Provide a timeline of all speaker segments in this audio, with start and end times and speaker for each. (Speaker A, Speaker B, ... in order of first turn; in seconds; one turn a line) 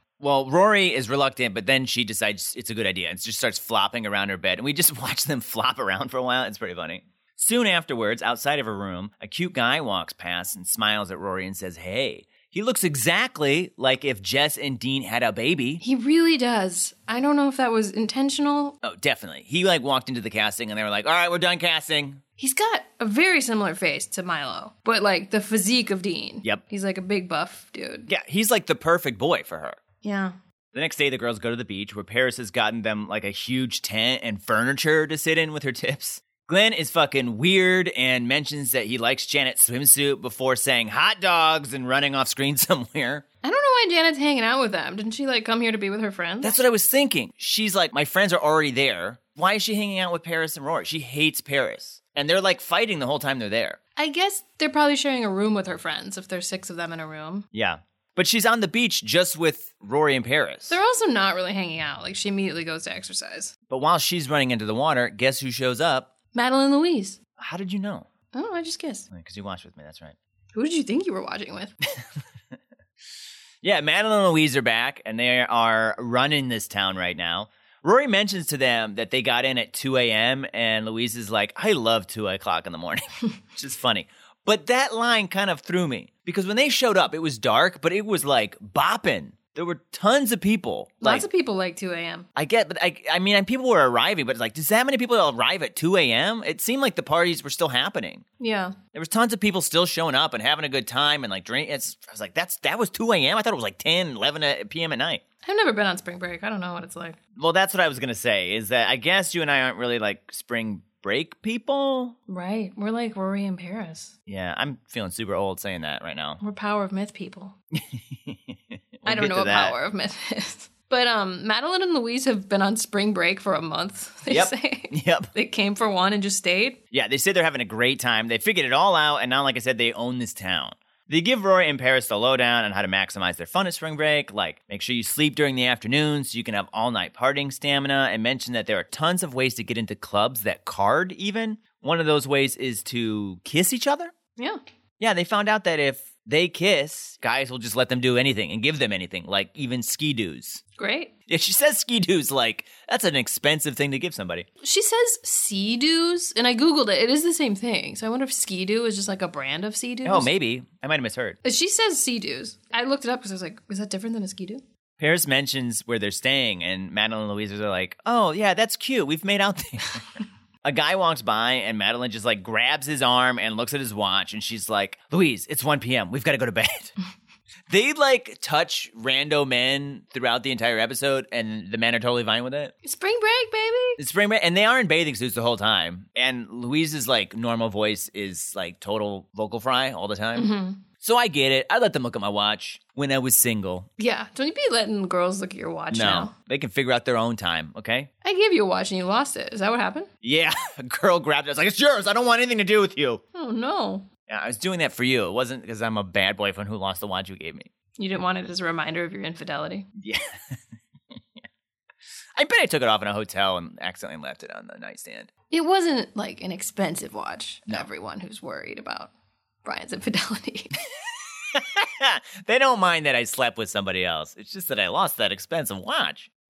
Speaker A: 0.2-15.8
Speaker B: 15.8-18.8
Speaker A: 18.8-22.2
Speaker B: 22.4-28.1
Speaker A: 28.1-29.8
Speaker B: 30.0-30.4
Speaker A: 30.7-43.2
Speaker B: 43.4-46.6
Speaker A: 46.4-53.8
Speaker B: 54.0-57.5
Speaker A: 57.5-60.8
Speaker B: 60.7-63.5
Speaker A: 63.7-66.1
Speaker B: 66.3-67.2
Speaker A: 67.4-68.1
Speaker B: 68.3-69.1
Speaker A: 69.1-70.2
Speaker B: 70.5-71.7
Speaker A: 71.9-72.6
Speaker A: 73.6-91.3
Speaker B: 91.0-92.3
Speaker A: 92.4-98.2
Speaker B: 98.4-98.8
Speaker A: 98.9-105.2
Speaker B: 105.4-107.2
Speaker A: 107.4-112.2
Speaker B: 112.3-114.2
Speaker A: 114.3-116.4
Speaker B: 116.4-117.5
Speaker A: 117.7-119.8
Speaker B: 119.0-126.8
Speaker A: 124.3-125.3
Speaker A: 126.9-144.1
Speaker A: 145.0-150.6
Speaker B: 150.8-151.1
Speaker A: 151.3-154.5
Speaker B: 154.6-160.3
Speaker A: 160.1-161.4
Speaker B: 161.4-164.6
Speaker A: 165.0-176.9
Speaker A: 177.7-182.7
Speaker B: 182.8-184.0
Speaker A: 184.0-193.9
Speaker B: 190.3-190.8
Speaker B: 194.0-196.3
Speaker A: 195.9-198.1
Speaker B: 198.2-200.1
Speaker A: 200.2-203.2
Speaker B: 203.3-204.1
Speaker A: 204.3-207.7
Speaker B: 208.0-209.9
Speaker A: 210.0-210.6
Speaker A: 212.4-215.3
Speaker B: 215.5-219.1
Speaker B: 219.7-220.8
Speaker A: 221.4-226.3